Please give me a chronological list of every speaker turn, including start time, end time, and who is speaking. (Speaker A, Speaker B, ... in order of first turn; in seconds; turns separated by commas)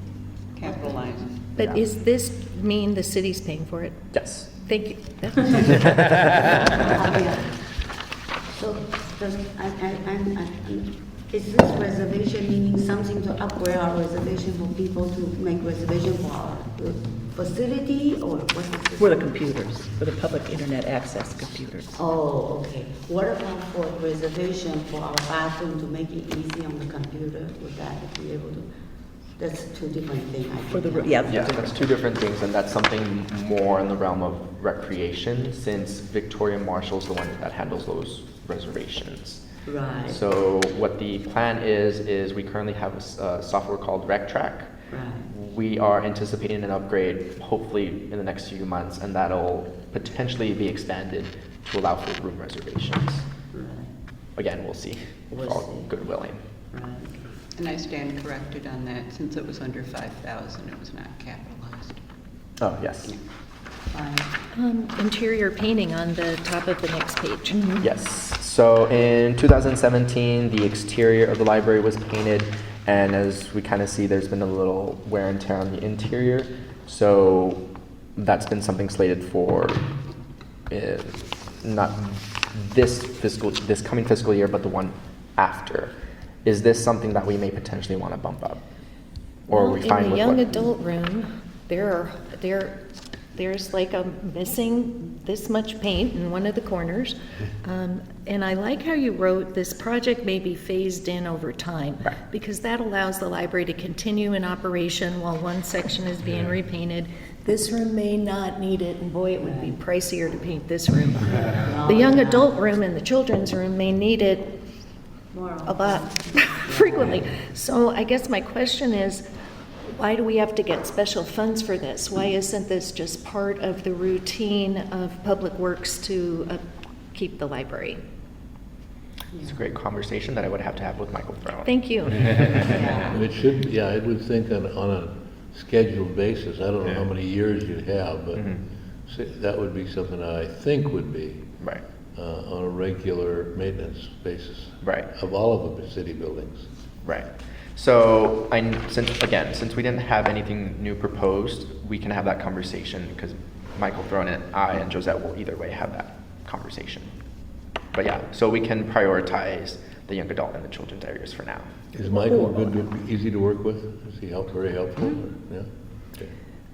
Speaker A: 0.5-1.4, Speaker B: 1.6-6.8, Speaker C: 4.1-4.5, Speaker D: 6.7-7.6, Speaker D: 8.5-19.3, Speaker E: 19.0-22.0, Speaker D: 21.9-28.7, Speaker D: 29.4-31.4, Speaker E: 30.7-31.8, Speaker C: 31.3-39.4, Speaker D: 39.6-40.2, Speaker C: 40.1-44.7, Speaker D: 44.9-45.3, Speaker C: 45.3-53.2, Speaker D: 53.5-53.9, Speaker C: 54.4-56.4, Speaker D: 55.3-55.9, Speaker D: 56.7-57.1, Speaker A: 57.5-62.0, Speaker C: 62.6-63.1, Speaker D: 63.9-64.3, Speaker B: 64.5-67.8, Speaker C: 67.8-77.6, Speaker C: 78.2-79.8, Speaker C: 80.7-85.9, Speaker C: 86.4-88.6, Speaker C: 89.5-90.7, Speaker B: 89.5-92.8, Speaker B: 93.3-114.6, Speaker D: 109.4-109.8, Speaker D: 111.5-112.5, Speaker B: 115.6-119.2, Speaker D: 116.6-117.5, Speaker B: 119.9-126.6, Speaker B: 127.1-128.0, Speaker C: 129.4-132.5, Speaker B: 131.6-132.8, Speaker D: 132.7-133.2, Speaker F: 133.0-141.5, Speaker F: 142.1-146.7, Speaker C: 144.8-145.1, Speaker C: 147.0-157.1, Speaker C: 157.9-161.7, Speaker F: 161.9-166.3, Speaker B: 162.3-162.8